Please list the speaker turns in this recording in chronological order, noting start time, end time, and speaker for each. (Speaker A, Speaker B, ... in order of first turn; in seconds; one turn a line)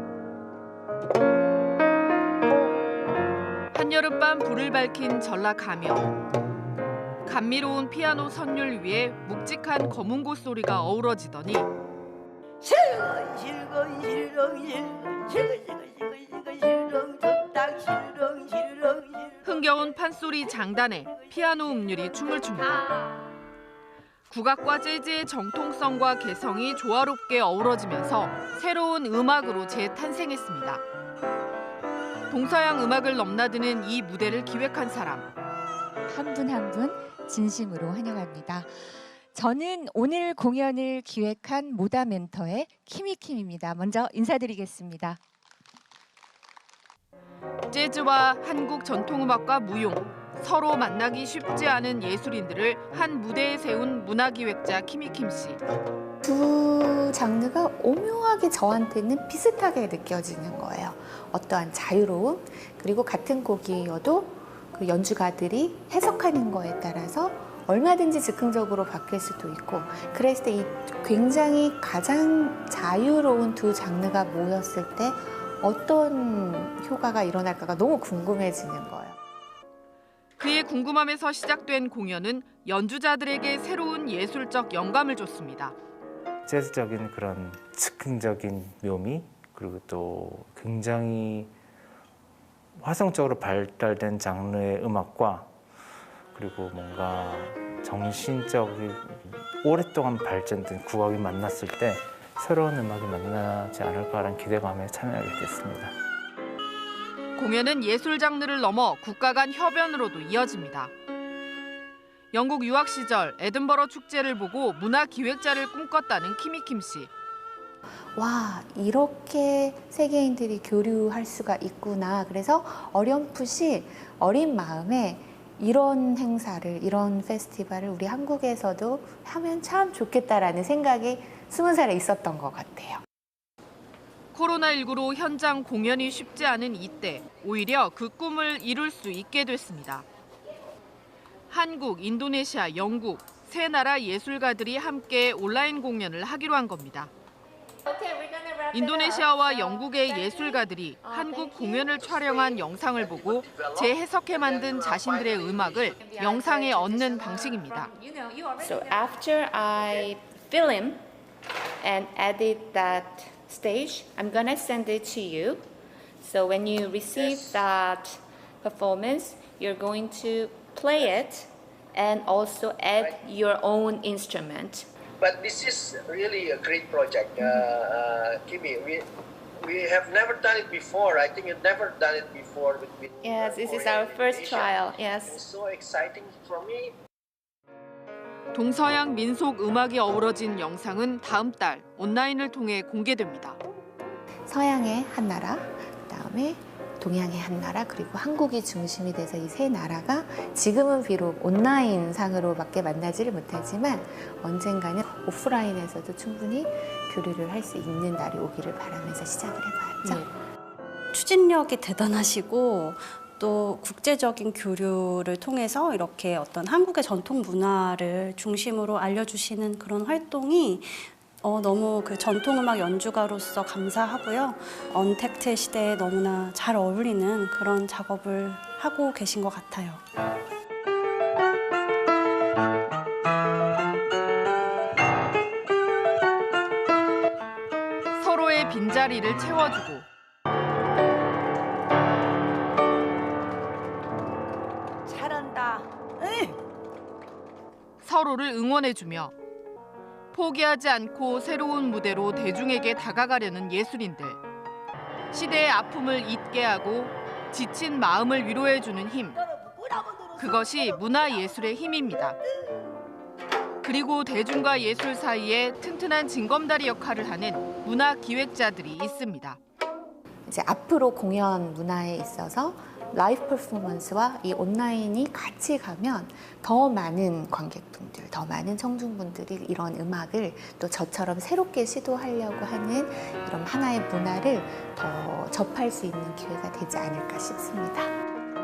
Speaker A: 3.7-6.1
Speaker A: 7.2-11.7
Speaker B: 12.6-19.4
Speaker A: 19.4-22.9
Speaker A: 24.3-30.8
Speaker A: 32.3-35.3
Speaker C: 36.1-38.7
Speaker C: 39.3-45.2
Speaker A: 47.7-55.6
Speaker D: 56.2-79.2
Speaker A: 80.4-85.8
Speaker E: 86.5-91.5
Speaker E: 92.8-95.5
Speaker E: 96.3-105.9
Speaker A: 107.4-110.9
Speaker A: 112.3-117.1
Speaker D: 118.2-133.0
Speaker A: 134.3-140.1
Speaker A: 141.5-147.1
Speaker F: 147.9-150.4
Speaker A: 148.7-157.9
Speaker F: 151.1-151.8
Speaker G: 151.8-156.1
Speaker F: 156.0-161.0
Speaker G: 159.8-160.1
Speaker F: 161.8-165.7
Speaker F: 166.2-174.9
Speaker G: 167.1-167.7
Speaker G: 170.9-171.3
Speaker G: 172.9-173.2
Speaker G: 175.2-179.1
Speaker G: 179.6-186.9
Speaker F: 183.2-185.4
Speaker A: 188.5-193.6
Speaker D: 194.5-210.3
Speaker H: 211.1-230.0
Speaker A: 238.2-240.1
Speaker B: 245.1-246.6
Speaker A: 248.0-249.3
Speaker A: 250.3-254.4
Speaker A: 255.3-259.4
Speaker B: 259.4-260.7
Speaker A: 260.4-262.4
Speaker A: 263.8-269.6
Speaker D: 270.5-288.1